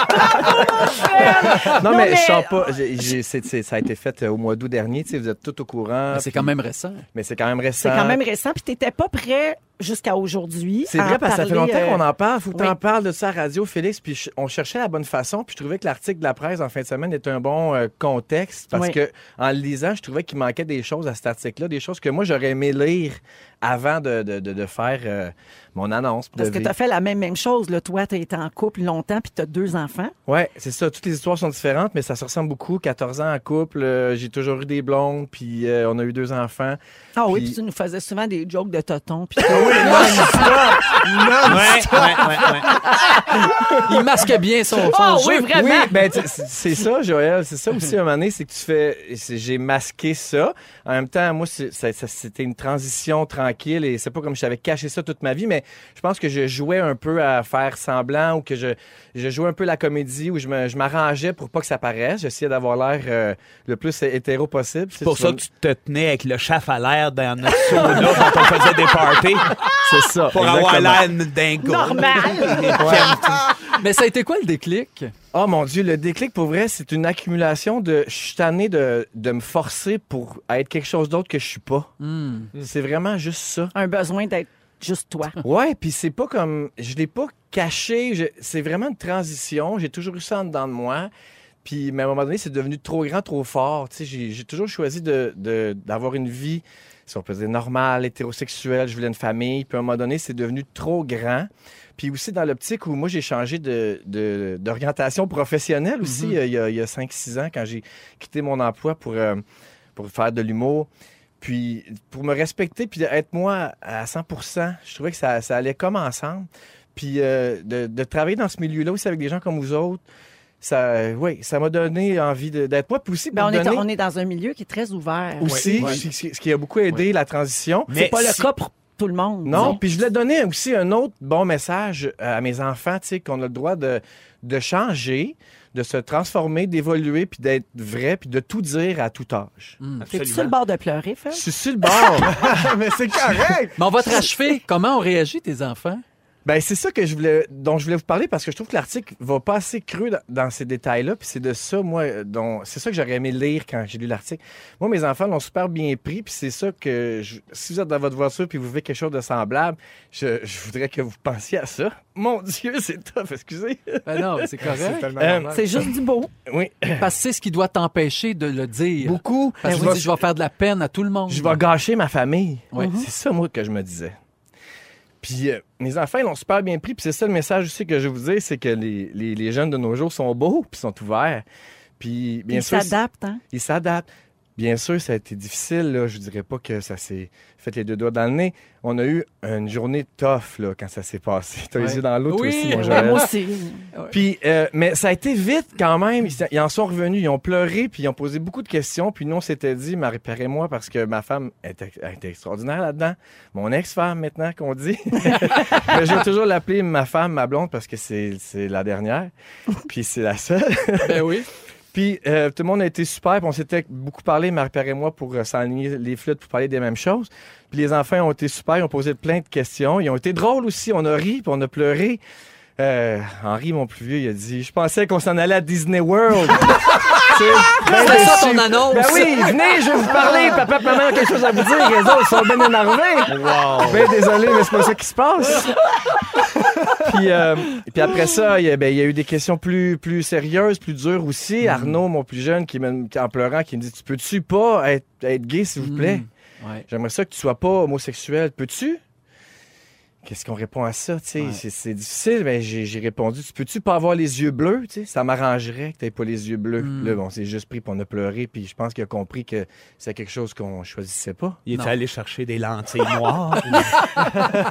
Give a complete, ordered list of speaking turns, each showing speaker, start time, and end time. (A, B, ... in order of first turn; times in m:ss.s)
0:00.1-0:03.1 A
0:01.6-0:06.5 B
0:06.1-0:07.0 C
0:07.1-0:08.2 B
0:07.8-0:12.8 A
0:10.9-0:26.7 B
0:18.7-0:19.0 A
0:26.4-0:30.1 A
0:30.3-0:37.6 B
0:37.2-0:41.0 A
0:39.5-0:42.6 D
0:41.4-0:42.7 E
0:42.6-0:43.8 A
0:43.8-0:45.6 C
0:44.8-0:46.1 A
0:45.5-1:05.4 B
1:05.0-1:09.7 E
1:07.9-1:08.3 A
1:09.8-1:11.0 B
1:10.3-1:13.5 E
1:11.6-1:13.2 A
1:12.3-1:13.4 D
1:12.8-1:13.2 B
1:13.7-1:15.1 C
1:15.3-1:21.9 B
1:22.0-1:22.5 C
1:22.6-1:23.7 B
1:23.7-1:25.4 A
1:25.4-1:31.1 B
1:31.6-1:49.4 B
1:46.0-1:46.4 C
1:50.0-1:50.9 B
1:51.4-2:00.0 B
2:00.6-2:03.9 B
2:03.3-2:05.9 A
2:05.4-2:07.9 B
2:05.4-2:06.0 D
2:07.9-2:08.5 E
2:07.9-2:09.8 A
2:09.4-2:19.8 B
2:19.8-2:20.0 C
2:20.0-2:20.5 E
2:20.1-2:21.5 A
2:21.3-2:22.5 B
2:22.2-2:23.8 D
2:23.8-2:26.0 C
2:26.4-2:45.9 B
2:44.0-2:45.1 C
2:44.6-2:45.7 D
2:45.5-2:46.3 A
2:46.5-2:47.1 B
2:47.0-2:51.6 C
2:49.0-2:50.2 B
2:49.6-2:50.0 A
2:51.3-2:54.1 B
2:52.7-2:53.1 A
2:55.2-3:01.4 B
3:02.0-3:02.9 B
3:02.5-3:03.4 A
3:03.5-3:13.3 B
3:11.8-3:13.3 C
3:12.7-3:13.8 A
3:14.1-3:29.3 B
3:29.8-3:31.4 B
3:31.0-3:31.5 C
3:31.9-3:42.2 B
3:42.8-3:55.8 B
3:47.7-3:49.4 C
3:47.8-3:48.6 D
3:53.3-3:54.1 E
3:56.9-4:06.3 B
4:01.6-4:02.0 C
4:05.8-4:06.8 C
4:06.9-4:09.0 B
4:10.2-4:21.6 B
4:16.8-4:17.2 C
4:21.7-4:24.1 E